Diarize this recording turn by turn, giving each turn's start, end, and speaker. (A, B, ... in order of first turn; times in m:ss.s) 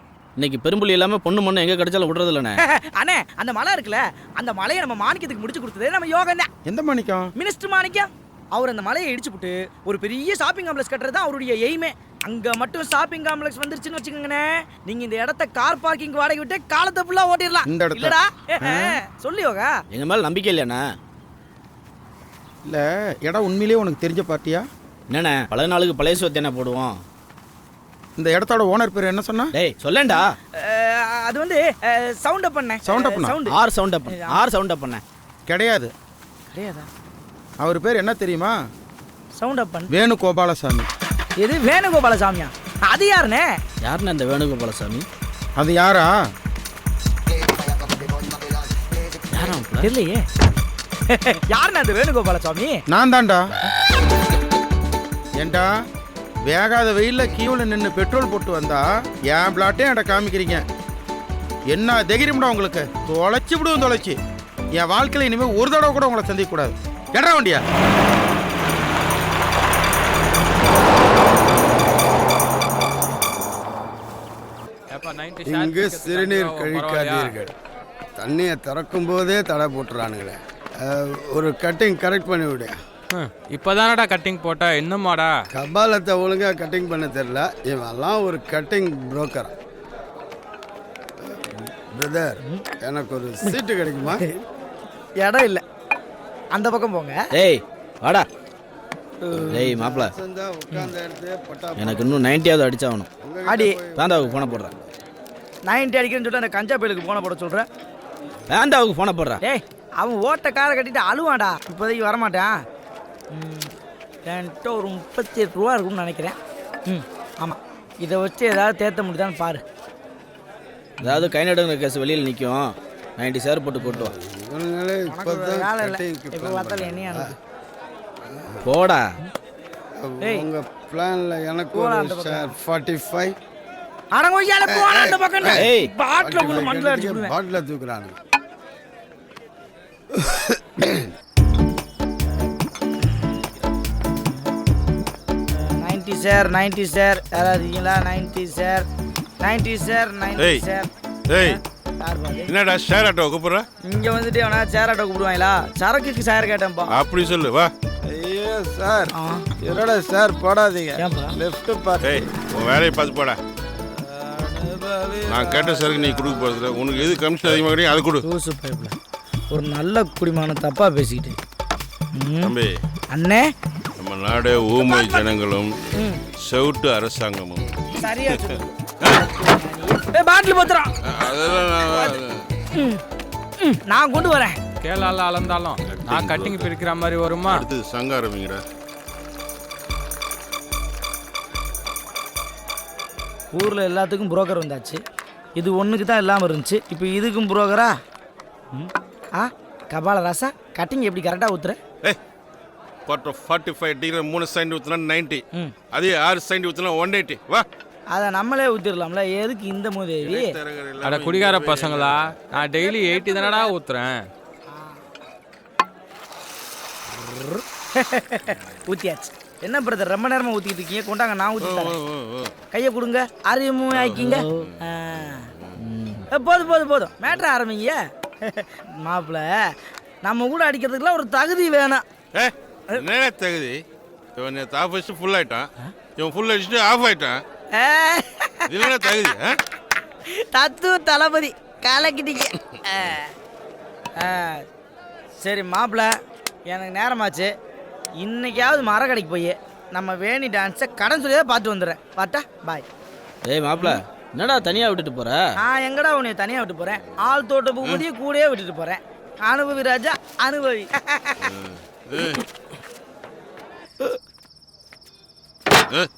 0:00.4-0:02.6 A
0:02.6-0:06.5 B
0:06.6-0:07.3 C
0:07.4-0:19.7 B
0:17.6-0:18.9 C
0:19.9-0:20.8 A
0:22.6-0:24.7 C
0:25.1-0:26.9 A
0:28.2-0:29.5 C
0:29.5-0:30.3 A
0:30.6-0:33.6 B
0:32.8-0:33.4 C
0:33.5-0:35.0 A
0:34.1-0:34.4 B
0:35.5-0:35.9 C
0:36.5-0:36.9 B
0:37.6-0:38.6 C
0:39.4-0:39.9 B
0:39.9-0:40.9 C
0:41.4-0:43.5 B
0:43.8-0:45.0 A
0:45.6-0:46.1 C
0:49.3-0:49.9 A
0:49.8-0:50.2 B
0:51.1-0:52.8 B
0:52.9-0:53.4 C
0:55.4-0:55.7 C
0:56.4-1:00.6 C
1:01.7-1:04.2 C
1:04.7-1:07.6 C
1:14.9-1:17.4 D
1:15.4-1:17.5 E
1:18.2-1:22.8 E
1:23.1-1:25.3 D
1:25.5-1:29.5 E
1:31.2-1:34.3 E
1:33.4-1:34.3 B
1:35.2-1:35.6 B
1:36.5-1:37.2 B
1:37.3-1:38.2 A
1:39.2-1:39.6 B
1:39.3-1:42.3 E
1:39.5-1:40.1 A
1:41.8-1:43.1 A
1:43.2-1:44.7 E
1:43.4-1:43.8 B
1:43.9-1:44.7 A
1:45.6-1:47.7 B
1:48.5-1:49.4 A
1:49.4-1:52.5 B
1:53.3-1:53.7 B
1:54.2-1:59.6 B
2:01.0-2:01.3 B
2:01.0-2:04.2 A
2:03.8-2:07.3 E
2:05.1-2:07.3 B
2:08.3-2:08.7 E
2:08.6-2:09.0 A
2:10.0-2:13.4 E
2:10.2-2:10.5 B
2:11.7-2:12.5 B
2:14.1-2:17.3 B
2:14.7-2:15.6 E
2:15.5-2:15.9 A
2:16.2-2:18.2 E
2:20.1-2:21.1 E
2:25.5-2:28.9 B
2:29.4-2:32.5 B
2:30.4-2:30.6 F
2:31.3-2:31.6 F
2:32.4-2:33.6 F
2:33.8-2:36.9 B
2:36.9-2:37.7 F
2:38.0-2:42.3 E
2:39.1-2:39.4 B
2:41.0-2:41.4 B
2:42.0-2:43.4 F
2:44.0-2:46.7 E
2:45.3-2:48.2 F
2:48.2-2:49.0 B
2:49.5-2:51.4 B
2:52.1-2:52.5 B
2:52.4-2:52.7 F
2:53.1-2:53.5 B
2:54.0-2:55.7 F
2:54.8-2:55.2 B
2:56.0-2:56.2 B
2:56.4-2:59.3 F
2:57.9-3:00.9 B
3:01.0-3:02.4 F
3:01.9-3:02.1 B
3:02.7-3:03.0 B
3:03.6-3:04.6 B
3:04.8-3:07.7 D
3:05.9-3:06.7 F
3:07.5-3:08.6 F
3:13.5-3:15.0 B
3:15.6-3:17.9 B
3:18.7-3:21.8 B
3:23.1-3:27.6 F
3:28.1-3:30.6 B
3:30.2-3:32.2 F
3:31.0-3:34.3 D
3:32.9-3:33.7 B
3:37.1-3:42.0 B
3:41.6-3:42.5 F
3:42.7-3:45.5 B
3:43.9-3:44.8 F
3:44.2-3:44.7 A
3:45.8-3:46.3 A
3:46.3-3:52.0 B
3:52.3-3:53.8 F
3:54.4-3:57.4 F
3:57.7-3:59.3 B
3:58.7-3:59.6 F
4:00.3-4:03.3 B
4:04.2-4:04.6 B
4:05.4-4:06.1 B
4:06.7-4:07.5 B
4:08.2-4:12.8 B
4:13.4-4:15.5 A
4:15.6-4:21.5 B
4:21.4-4:22.4 F